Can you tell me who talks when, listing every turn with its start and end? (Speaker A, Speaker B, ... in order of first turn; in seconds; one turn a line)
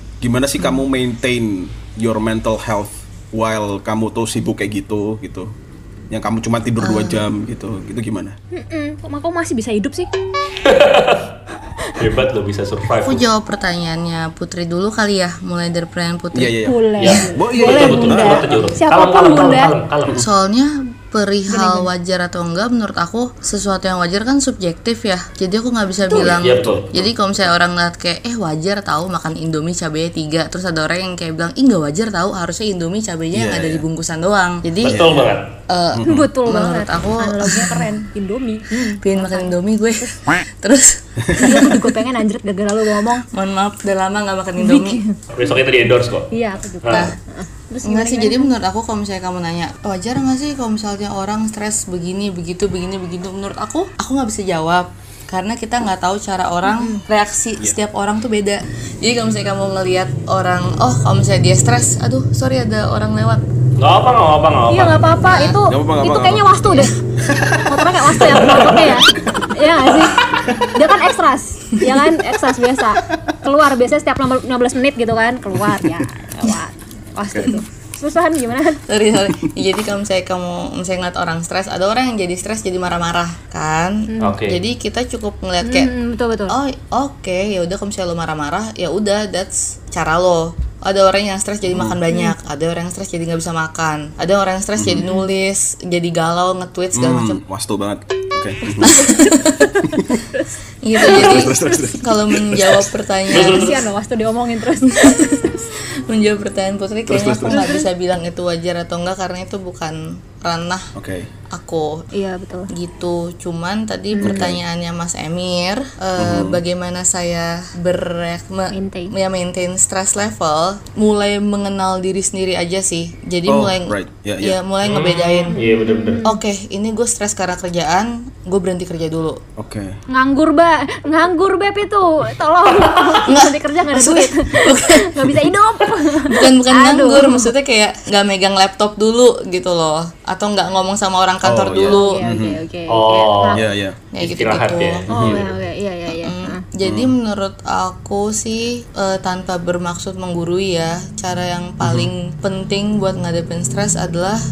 Speaker A: 0.2-5.5
Speaker A: 6.1-8.4
Speaker B: 6.8-7.2
Speaker C: 8.5-10.1
Speaker D: 10.6-11.2
Speaker D: 11.9-13.2
Speaker B: 12.9-16.6
Speaker A: 16.3-18.6
Speaker C: 16.6-19.7
Speaker D: 17.0-20.2
Speaker B: 20.2-35.0
Speaker C: 21.5-21.9
Speaker A: 26.1-27.1
Speaker D: 26.1-26.9
Speaker A: 33.3-33.9
Speaker D: 34.8-35.5
Speaker A: 34.8-35.4
Speaker B: 35.7-37.9
Speaker A: 35.9-36.3
Speaker C: 36.0-40.1
Speaker B: 38.9-41.9
Speaker C: 41.4-43.3
Speaker B: 43.3-45.0
Speaker C: 44.6-45.2
Speaker D: 45.3-46.3
Speaker C: 46.3-48.5
Speaker D: 46.8-47.1
Speaker B: 46.9-47.2
Speaker B: 47.8-63.4
Speaker C: 56.7-57.0
Speaker D: 63.8-65.2
Speaker C: 64.7-66.9
Speaker B: 65.2-65.6
Speaker A: 65.7-68.1
Speaker C: 67.7-78.8
Speaker D: 68.2-68.9
Speaker B: 78.9-85.9
Speaker C: 84.1-84.4
Speaker D: 84.2-84.6
Speaker C: 85.6-86.6
Speaker B: 86.5-97.4
Speaker A: 91.7-92.0
Speaker A: 94.8-95.1
Speaker C: 95.0-95.2
Speaker A: 96.9-99.1
Speaker C: 98.8-100.5
Speaker B: 98.8-99.8
Speaker A: 99.8-100.2
Speaker B: 100.8-103.8
Speaker C: 101.0-101.9
Speaker A: 101.0-102.9
Speaker D: 103.3-103.8
Speaker C: 103.3-105.5
Speaker B: 104.9-110.9
Speaker A: 107.1-107.7
Speaker C: 107.5-107.9
Speaker A: 111.0-111.3
Speaker B: 111.5-112.1
Speaker C: 112.1-112.7
Speaker B: 112.7-125.6
Speaker C: 114.1-114.5
Speaker A: 114.2-114.6
Speaker A: 116.2-116.6
Speaker C: 118.7-119.1
Speaker A: 123.5-124.6
Speaker D: 124.8-126.2
Speaker C: 125.4-126.4
Speaker B: 126.2-129.4
Speaker A: 129.6-130.0
Speaker C: 130.1-137.5
Speaker D: 132.8-133.2
Speaker B: 133.2-135.5
Speaker B: 136.1-142.2
Speaker A: 141.4-142.6
Speaker C: 141.8-143.6
Speaker D: 142.9-143.7
Speaker A: 143.5-144.0
Speaker B: 144.1-145.5
Speaker D: 144.2-145.4
Speaker A: 145.1-145.4
Speaker C: 145.1-146.6
Speaker B: 146.1-154.4
Speaker A: 146.8-147.1
Speaker A: 151.8-152.1